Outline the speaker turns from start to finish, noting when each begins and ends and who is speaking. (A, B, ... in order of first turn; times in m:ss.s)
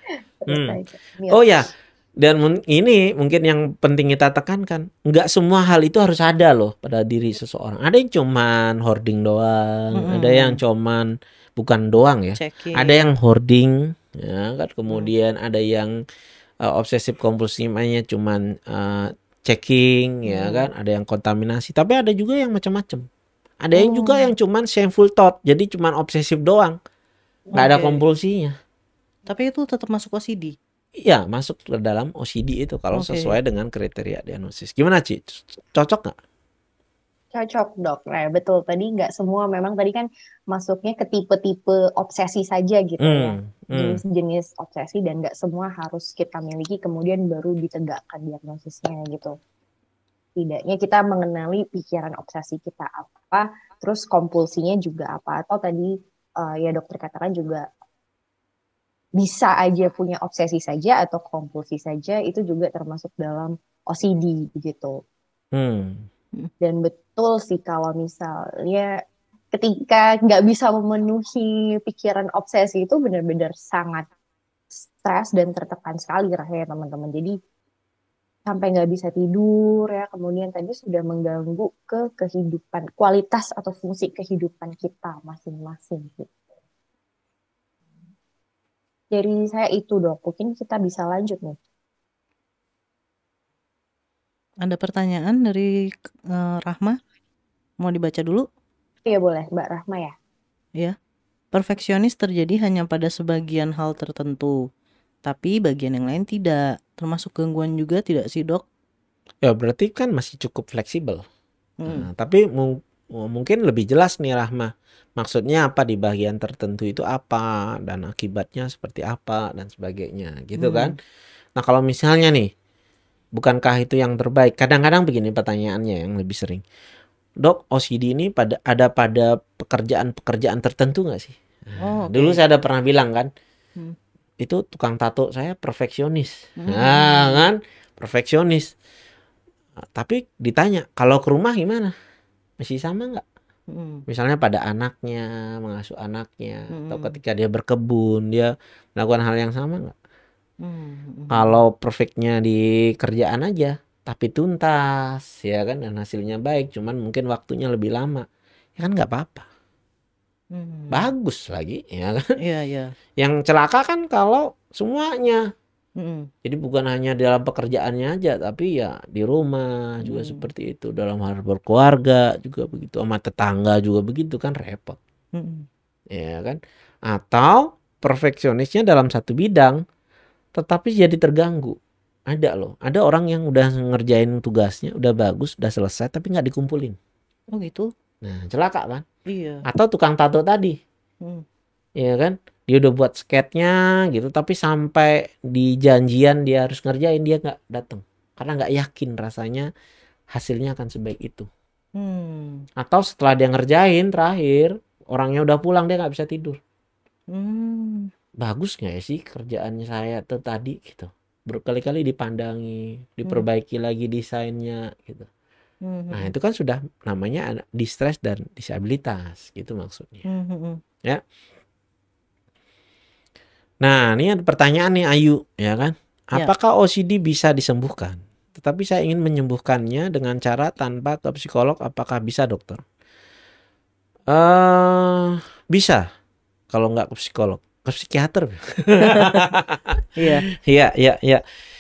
0:00.4-0:01.7 A
0:00.5-0:00.8 B
0:01.3-0:15.9 B
0:10.0-0:10.6 C
0:12.4-0:13.0 C
0:16.6-0:23.1 B
0:20.3-0:20.7 C
0:23.6-0:26.8 B
0:23.8-0:24.3 C
0:27.5-0:28.0 C
0:27.6-0:28.6 B
0:29.3-0:30.6 C
0:31.0-0:36.2 B
0:32.9-0:33.4 C
0:37.3-0:49.3 A
0:43.0-0:44.0 B
0:50.4-0:57.7 A
0:59.2-1:05.0 A
1:05.5-1:06.1 B
1:06.6-1:08.9 A
1:09.5-1:14.1 A
1:15.0-1:17.4 A
1:18.5-1:26.3 A
1:29.1-1:31.6 A
1:34.6-1:35.7 C
1:36.3-1:37.0 C
1:37.8-1:38.5 C
1:39.1-1:40.1 A
1:41.5-1:44.6 C
1:45.3-1:48.6 C
1:49.4-1:51.2 B
1:51.8-2:01.0 B
2:00.6-2:01.0 C
2:01.6-2:02.5 B
2:03.4-2:06.6 B
2:07.4-2:13.3 B
2:11.8-2:12.4 C
2:14.4-2:18.7 B
2:16.6-2:17.5 C
2:19.8-2:21.9 B
2:22.6-2:23.2 B
2:23.7-2:24.0 C
2:24.1-2:30.0 B
2:26.7-2:27.2 C
2:30.6-2:31.6 C
2:31.3-2:38.3 B
2:38.8-2:39.5 B
2:40.6-2:41.1 C
2:40.9-2:42.2 B
2:42.4-2:42.9 C
2:43.2-2:45.4 B
2:46.0-2:46.3 C
2:46.4-2:55.0 B
2:50.1-2:50.4 C
2:55.4-2:55.7 C
2:56.1-2:59.8 B
3:00.5-3:01.8 B
3:02.3-3:07.0 B
3:07.5-3:07.9 C
3:08.2-3:09.0 B
3:09.3-3:09.6 C
3:09.6-3:10.8 B
3:12.0-3:19.7 B
3:20.3-3:21.5 B
3:22.0-3:22.6 C
3:22.8-3:26.6 B
3:27.3-3:28.1 C
3:28.4-3:35.3 B
3:35.9-3:36.3 C
3:36.1-3:40.2 B
3:40.3-3:40.8 C
3:43.8-3:52.8 B
3:54.3-3:56.0 B
3:56.7-4:01.4 B
3:59.0-3:59.4 C
4:00.2-4:00.4 C